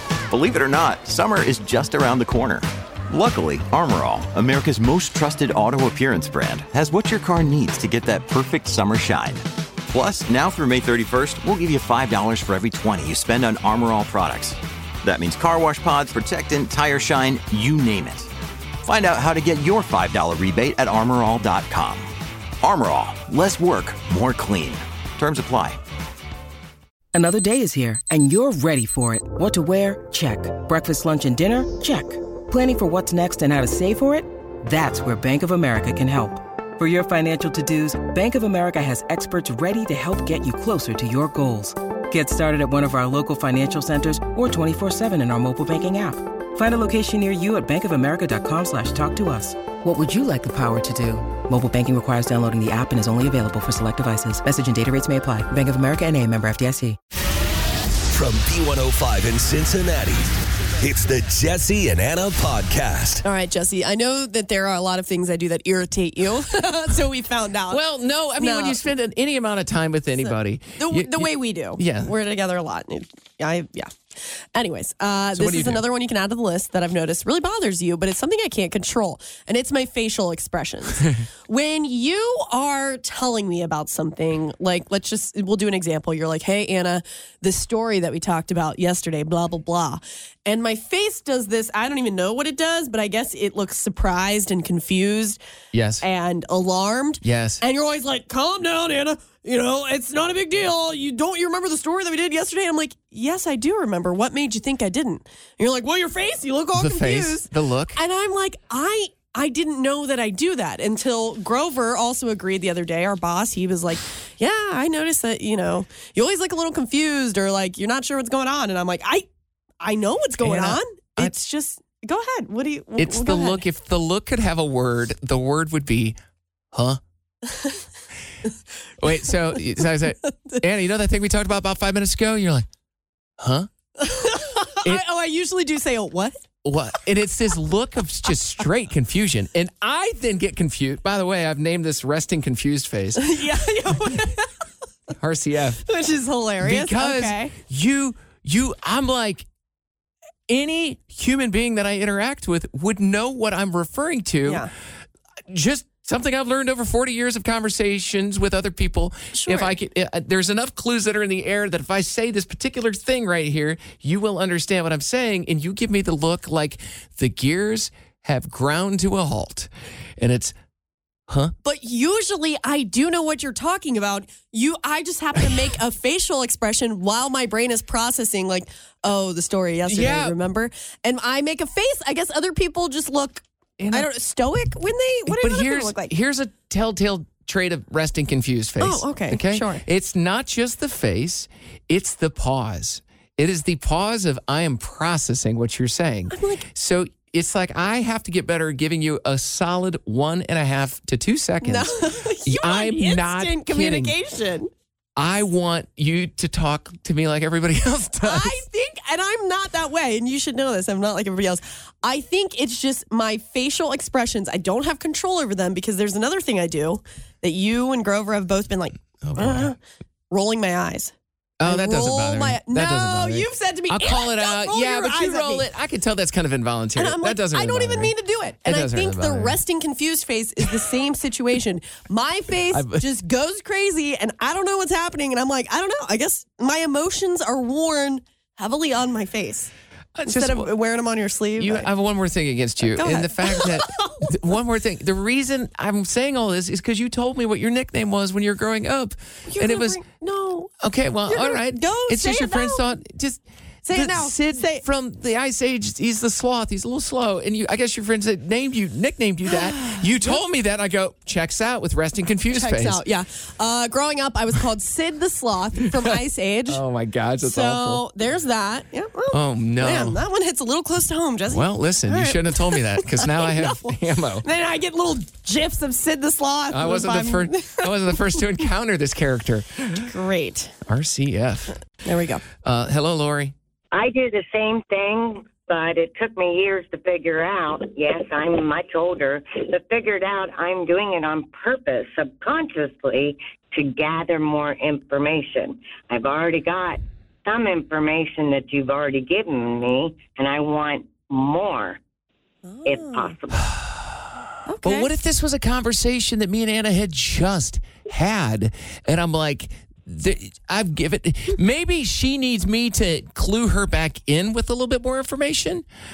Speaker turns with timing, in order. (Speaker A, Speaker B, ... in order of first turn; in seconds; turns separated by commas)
Speaker A: 0.3-18.3, Speaker A: 18.8-22.1, Speaker A: 22.6-25.8, Speaker B: 27.1-57.0, Speaker C: 58.1-63.2, Speaker D: 63.2-67.8, Speaker E: 67.7-72.1, Speaker D: 68.4-68.8, Speaker D: 70.2-74.0, Speaker D: 74.5-95.4, Speaker E: 75.4-75.8, Speaker E: 95.7-96.0, Speaker D: 96.0-119.3, Speaker E: 97.2-97.6, Speaker E: 106.7-108.0, Speaker D: 119.8-123.6, Speaker E: 120.4-121.3, Speaker E: 123.0-126.2, Speaker E: 126.7-127.0, Speaker D: 127.5-127.8, Speaker E: 129.0-132.7, Speaker D: 130.2-130.6, Speaker E: 133.4-133.7, Speaker D: 134.0-136.4, Speaker E: 136.6-144.0, Speaker D: 143.2-144.5, Speaker E: 145.2-145.8, Speaker D: 145.8-147.5, Speaker E: 146.6-149.5, Speaker E: 150.5-154.7, Speaker E: 155.5-170.5, Speaker D: 159.3-159.7, Speaker E: 171.3-171.5, Speaker D: 171.6-186.1, Speaker E: 179.9-180.3, Speaker E: 183.8-184.1, Speaker E: 185.3-201.9, Speaker D: 188.8-189.8, Speaker D: 196.3-196.7, Speaker D: 201.6-204.7, Speaker E: 202.4-204.2, Speaker E: 205.2-208.6, Speaker D: 208.2-219.8, Speaker E: 219.2-219.7, Speaker D: 220.3-225.7, Speaker E: 221.6-228.1, Speaker D: 227.0-239.7, Speaker E: 228.6-229.6, Speaker E: 232.7-233.1, Speaker E: 240.2-240.7, Speaker D: 240.2-241.9, Speaker E: 241.6-250.0, Speaker D: 242.9-244.3, Speaker D: 249.5-250.7, Speaker E: 250.8-263.0, Speaker D: 251.3-252.9, Speaker D: 253.8-254.8, Speaker D: 259.5-260.4, Speaker D: 262.5-266.8, Speaker E: 266.7-268.1, Speaker D: 267.4-278.4, Speaker E: 269.3-270.2, Speaker E: 271.5-274.5, Speaker E: 276.7-280.1, Speaker D: 280.0-280.7, Speaker E: 280.9-281.8, Speaker D: 282.0-282.4, Speaker E: 282.6-283.5, Speaker F: 283.9-302.0, Speaker D: 302.6-303.3, Speaker F: 302.9-303.7, Speaker E: 303.8-304.1, Speaker D: 304.7-305.1, Speaker E: 304.8-315.9